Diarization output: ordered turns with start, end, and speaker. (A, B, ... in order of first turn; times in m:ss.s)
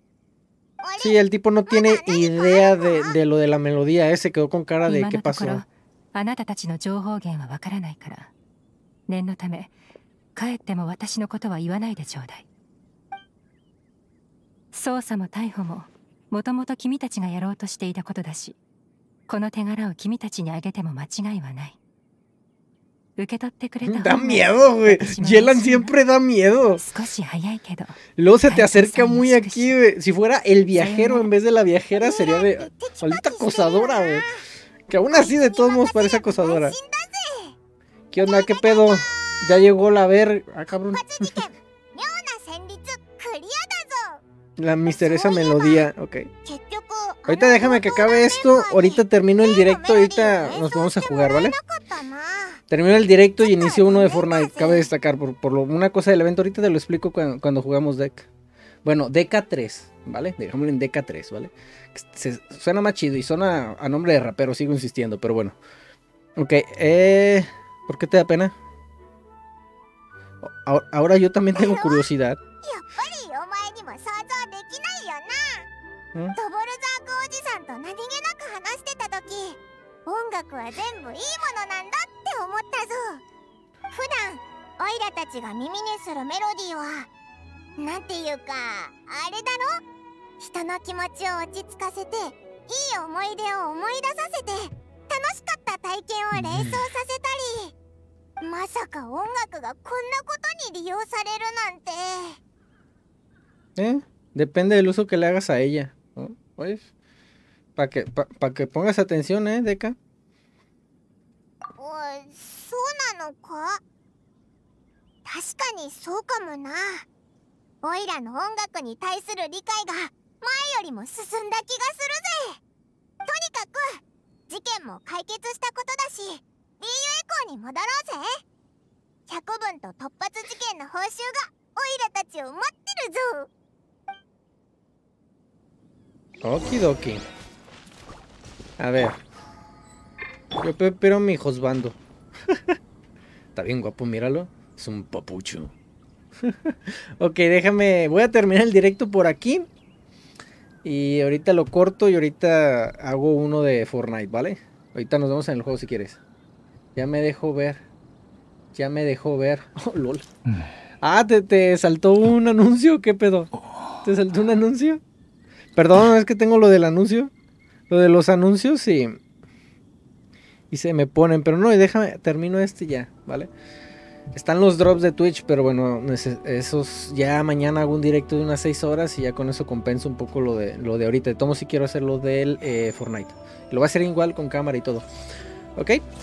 0:00.8-0:03.2 A
0:01.0-0:05.6 B
0:04.9-0:08.3 C
0:09.1-0:09.7 C
0:10.4-0:12.5 C
0:14.7-0:18.6 C
0:19.3-0:21.8 C
0:23.2-0:25.9 C
0:23.9-0:26.8 B
0:26.8-0:28.0 C
0:28.2-0:34.3 B
0:28.5-0:29.8 C
0:30.8-0:31.3 C
0:32.0-0:34.4 A
0:34.9-0:36.8 B
0:35.1-0:37.6 A
0:38.1-0:41.4 B
0:38.2-0:39.6 A
0:40.9-0:44.2 A
0:44.6-0:46.3 B
0:45.0-0:45.9 A
0:46.4-0:52.6 A
0:47.3-0:51.6 B
0:52.7-0:58.3 B
0:53.4-0:54.9 A
0:58.8-1:05.6 B
1:06.4-1:08.6 B
1:10.4-1:12.4 B
1:11.6-1:12.1 A
1:12.6-1:15.7 A
1:16.4-1:23.2 A
1:23.9-1:27.1 A
1:27.8-1:29.8 A
1:30.4-1:37.7 A
1:36.3-1:36.9 B
1:38.4-1:42.4 A
1:43.8-1:46.9 B
1:47.8-1:50.0 B
1:51.8-1:53.8 A
1:55.3-1:57.0 A
1:57.8-2:02.6 A
2:03.3-2:08.4 A
2:09.3-2:13.5 A
2:16.4-2:17.2 B
2:18.8-2:19.2 B
2:20.6-2:22.8 B
2:23.6-2:25.7 B
2:26.4-2:29.7 B
2:30.8-2:36.2 B
2:37.0-2:37.8 B
2:38.7-2:40.3 B
2:41.0-2:43.5 B
2:44.0-2:45.0 B
2:45.8-2:47.3 B
2:47.9-2:49.2 B
2:50.7-2:53.5 B
2:54.3-3:05.1 B
3:05.8-3:06.0 B